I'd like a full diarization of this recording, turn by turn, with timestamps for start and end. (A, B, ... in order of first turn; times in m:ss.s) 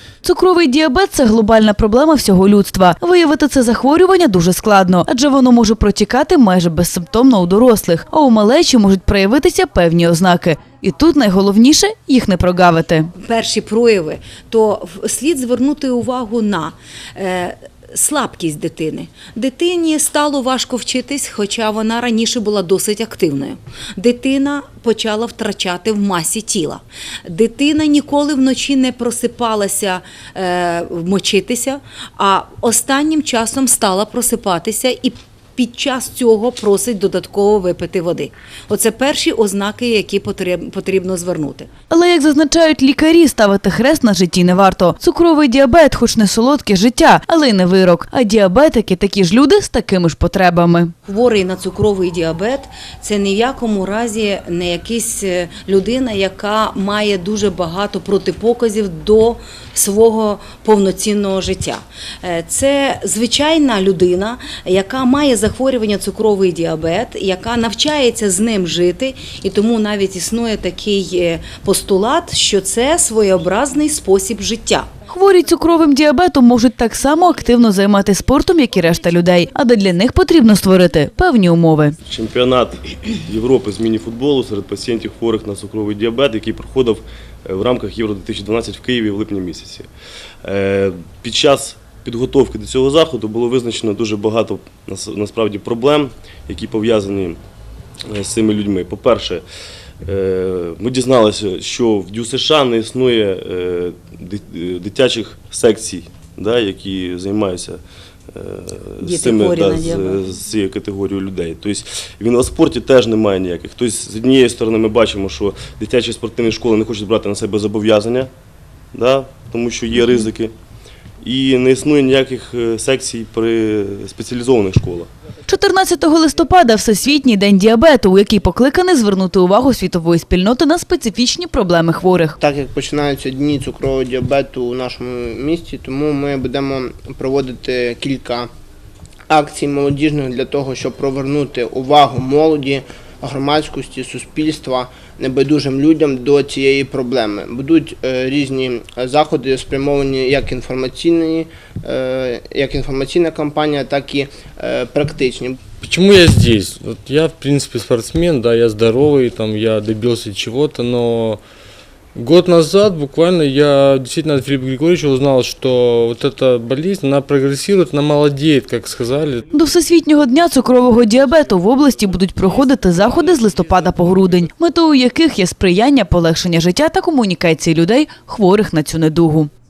0:00.2-0:13.1 A
0:13.2-0:41.7 B
0:41.9-0:50.9 A
0:51.0-1:14.9 B
1:15.1-1:22.0 A
1:22.1-1:29.9 C
1:30.4-1:37.4 C
1:38.1-1:39.4 C
1:40.0-1:47.8 C
1:48.3-1:58.3 C
1:49.0-1:50.2 B
1:58.9-2:00.5 C
2:01.2-2:05.1 C
2:05.5-2:12.4 A
2:12.4-2:18.5 D
2:19.3-2:35.5 D
2:35.8-2:41.4 E
2:42.1-2:49.4 E
2:49.5-2:59.5 A